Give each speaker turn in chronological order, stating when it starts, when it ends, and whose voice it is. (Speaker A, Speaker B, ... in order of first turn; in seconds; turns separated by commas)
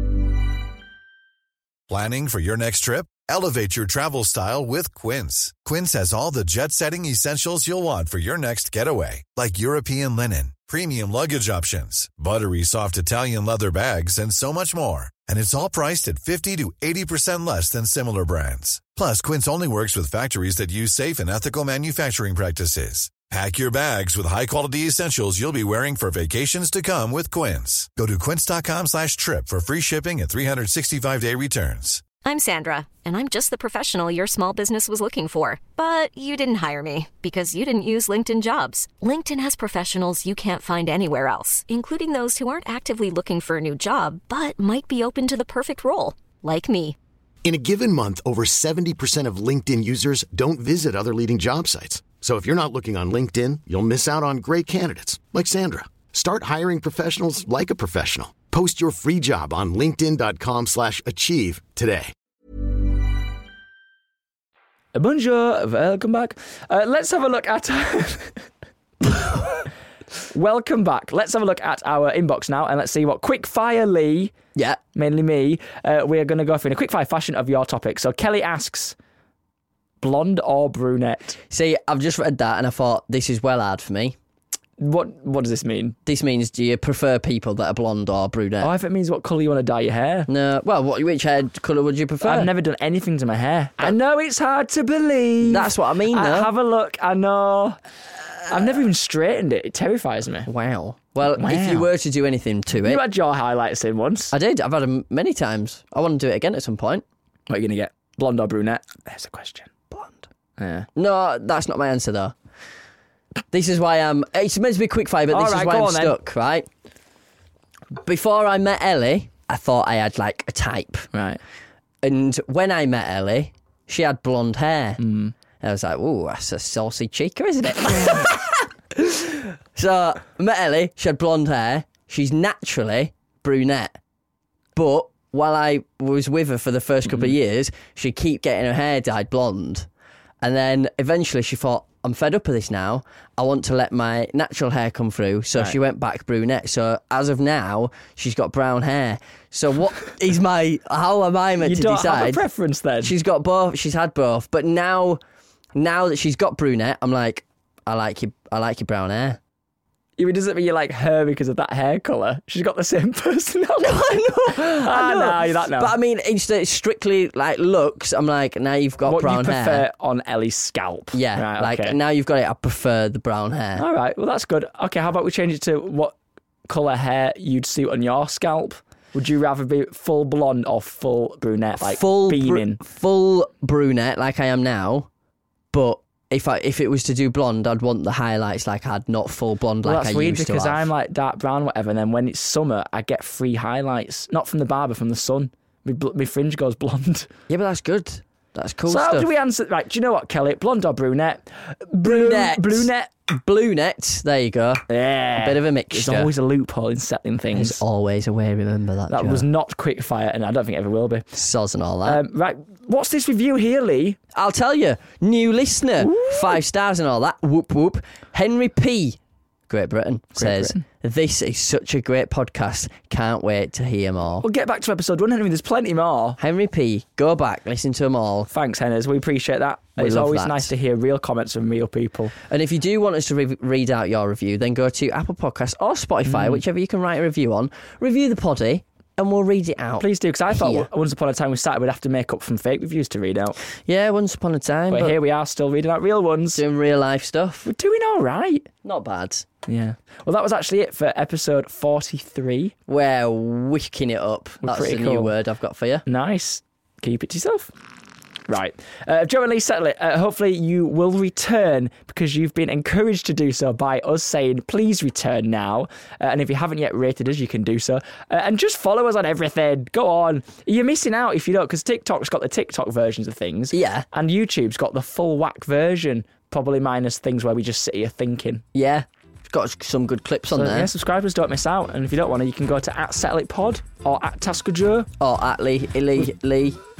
Speaker A: 1.9-32.0, Speaker B: 32.2-47.0, Speaker C: 47.5-62.1, Speaker D: 64.9-68.5, Speaker D: 70.3-74.3, Speaker E: 74.5-74.8, Speaker D: 75.0-79.0, Speaker D: 80.0-81.4, Speaker E: 81.5-84.2, Speaker D: 84.8-86.0, Speaker E: 86.0-88.7, Speaker D: 88.6-90.3, Speaker E: 90.3-92.5, Speaker D: 92.2-97.8, Speaker E: 95.4-96.5, Speaker D: 98.5-100.5, Speaker E: 100.5-103.0, Speaker D: 101.2-101.9, Speaker D: 102.8-104.3, Speaker E: 104.3-107.0, Speaker D: 107.5-109.7, Speaker E: 109.9-110.3, Speaker D: 110.6-110.9, Speaker E: 111.0-112.3, Speaker E: 113.5-116.7, Speaker D: 115.3-116.2, Speaker E: 118.0-121.1, Speaker D: 121.1-121.4, Speaker E: 122.0-125.0, Speaker D: 125.0-125.3, Speaker E: 125.6-134.0, Speaker E: 134.8-139.9, Speaker E: 140.4-152.4, Speaker D: 151.6-153.1, Speaker E: 153.0-155.2, Speaker E: 155.8-159.4, Speaker D: 160.2-165.9, Speaker E: 163.8-169.8, Speaker D: 169.1-172.0, Speaker E: 171.1-173.8, Speaker D: 173.8-176.2, Speaker D: 176.7-182.8, Speaker E: 181.8-185.1, Speaker E: 185.7-190.9, Speaker D: 189.8-197.3, Speaker E: 197.5-199.3, Speaker D: 198.9-203.1, Speaker E: 202.0-206.3, Speaker D: 204.9-207.8, Speaker E: 207.5-209.5, Speaker D: 209.1-211.3, Speaker E: 211.3-212.2, Speaker D: 212.1-214.2, Speaker E: 214.3-219.2, Speaker D: 216.0-216.6, Speaker E: 219.7-224.4, Speaker D: 220.4-220.8, Speaker D: 224.4-226.4, Speaker E: 226.4-228.5, Speaker D: 228.5-232.3, Speaker E: 230.0-230.7, Speaker E: 232.5-240.9, Speaker D: 236.2-236.6, Speaker D: 240.0-243.6, Speaker E: 243.9-245.2, Speaker D: 244.9-246.6, Speaker E: 246.6-247.7, Speaker D: 247.6-248.7, Speaker E: 248.8-249.5, Speaker D: 249.7-252.7, Speaker E: 252.9-256.0, Speaker D: 254.6-255.3, Speaker D: 256.1-257.7, Speaker D: 258.5-278.6, Speaker E: 273.7-274.1, Speaker E: 278.7-280.9, Speaker D: 280.5-285.1, Speaker E: 285.2-286.8